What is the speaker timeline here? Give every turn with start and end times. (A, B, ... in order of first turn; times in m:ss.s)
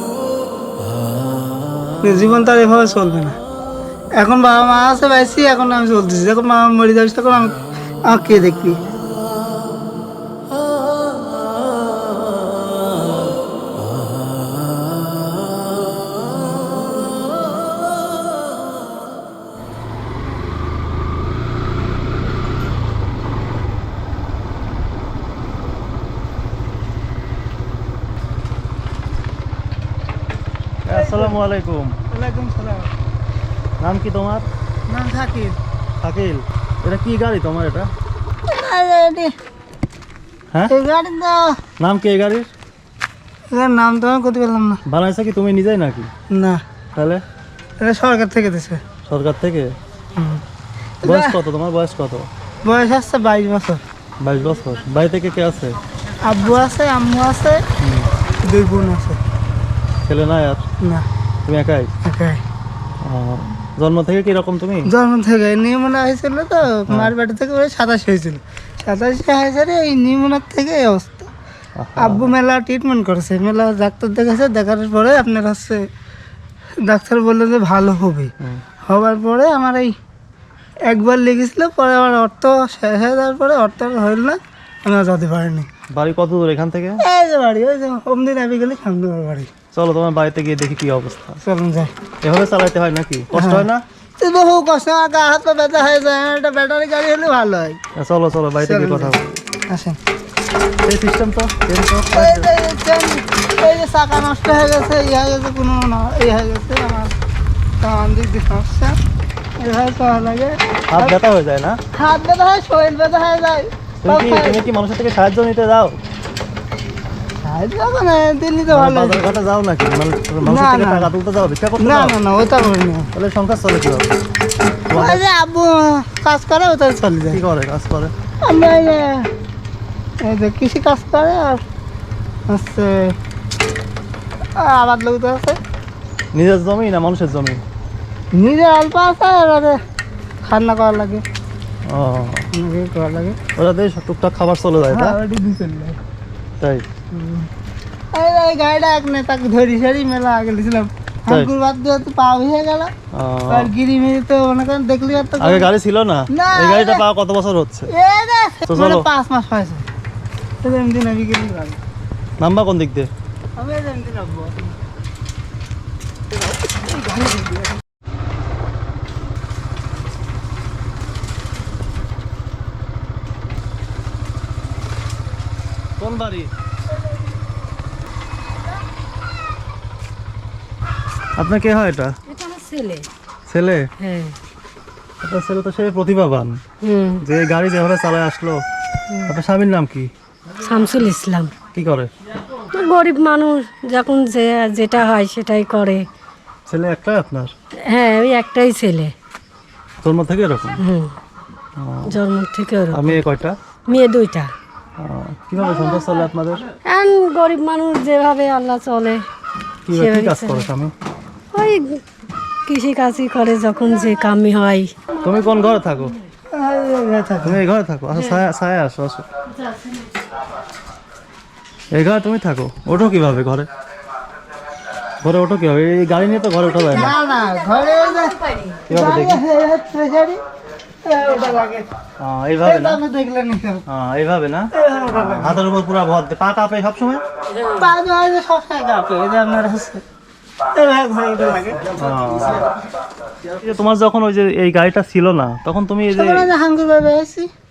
0:02.0-0:03.4 A
0:04.2-0:08.8 A
0:30.8-0:32.0 B
0:30.9-0:31.4 A
0:32.1-0:32.9 A
0:33.8-0:34.5 B
0:34.9-0:35.6 A
0:36.0-0:37.9 B
0:38.5-0:39.3 A
0:40.7-0:41.6 A
0:41.8-0:42.5 B
0:43.5-0:44.8 A
0:44.9-0:46.1 B
0:46.3-0:46.6 A
0:47.0-0:47.2 B
0:47.8-0:48.8 A
0:49.1-0:49.8 B
0:50.2-0:50.4 A
0:51.0-0:51.4 A
0:51.0-0:52.3 B
0:52.6-0:53.8 A
0:54.2-0:55.8 B
0:56.2-0:57.6 A
0:57.8-0:58.1 B
0:58.4-0:59.2 A
1:00.1-1:00.6 B
1:00.8-1:01.1 A
1:01.5-1:01.9 B
1:02.0-1:02.4 A
1:03.0-1:04.9 B
1:04.9-1:11.3 A
1:06.9-1:07.1 B
1:11.8-1:12.4 B
1:12.0-1:15.9 A
1:16.8-1:18.3 A
1:18.9-1:20.0 A
1:20.9-1:25.7 A
1:25.9-1:27.0 B
1:27.0-1:29.5 A
1:29.7-1:31.4 B
1:31.4-1:31.9 A
1:32.2-1:33.8 B
1:33.3-1:33.7 A
1:34.2-1:37.8 A
1:38.0-1:39.4 B
1:38.6-1:39.2 A
1:39.7-1:40.0 A
1:40.8-1:42.5 B
1:42.1-1:47.2 A
1:47.8-1:49.0 A
1:49.6-1:51.2 A
1:50.9-1:51.8 B
1:52.0-1:54.6 A
1:54.0-1:56.0 B
1:57.4-1:59.3 A
1:58.7-2:02.2 B
2:00.4-2:01.1 A
2:01.8-2:03.1 A
2:03.1-2:04.2 B
2:04.9-2:05.2 B
2:04.9-2:07.4 A
2:07.3-2:08.1 B
2:08.4-2:09.3 A
2:10.2-2:11.6 A
2:12.5-2:13.2 A
2:14.6-2:15.6 A
2:16.3-2:17.6 B
2:18.3-2:19.8 A
2:20.4-2:21.2 A
2:21.9-2:22.5 B
2:22.5-2:23.4 A
2:23.6-2:25.2 B
2:24.9-2:26.0 A
2:26.6-2:26.9 B
2:27.1-2:27.5 A
2:28.1-2:32.9 A
2:33.1-2:33.7 B
2:33.5-2:35.7 A
2:35.4-2:37.9 B
2:36.3-2:37.0 A
2:37.9-2:39.9 A
2:38.7-2:39.1 B
2:40.6-2:41.8 A
2:42.4-2:43.1 B
2:43.6-2:44.8 A
2:46.3-2:47.8 A
2:56.0-2:56.5 B
3:01.4-3:02.1 B
3:02.3-3:03.1 C
3:03.5-3:03.9 B
3:04.0-3:04.4 C
3:05.2-3:06.6 B
3:06.8-3:07.2 C
3:07.2-3:08.6 B
3:09.3-3:10.1 B
3:10.6-3:11.5 C
3:11.7-3:12.1 B
3:12.6-3:16.0 C
3:16.7-3:17.5 B
3:17.9-3:19.1 C
3:20.0-3:20.8 B
3:20.8-3:21.1 C
3:21.8-3:22.2 B
3:22.1-3:23.2 C
3:22.9-3:23.6 B
3:23.9-3:24.5 C
3:25.0-3:26.6 B
3:26.8-3:29.2 C
3:29.9-3:30.9 B
3:29.9-3:30.7 C
3:31.5-3:32.0 C
3:32.7-3:35.0 C
3:35.2-3:36.1 B
3:36.5-3:37.6 A
3:37.4-3:39.3 B
3:41.9-3:43.7 B
3:45.2-3:47.1 B
3:46.9-3:48.4 A
3:47.0-3:48.8 C
3:48.9-3:49.4 B
3:48.9-3:50.4 A
3:51.0-3:51.9 A
3:52.2-3:53.0 B
3:52.6-3:53.8 A
3:53.9-3:54.7 B
3:54.7-3:55.6 A
3:55.2-3:57.2 B
3:57.5-3:57.9 C
3:57.8-4:00.0 A
4:00.7-4:01.9 A
4:01.9-4:02.7 B
4:03.4-4:06.5 B
4:06.1-4:07.5 A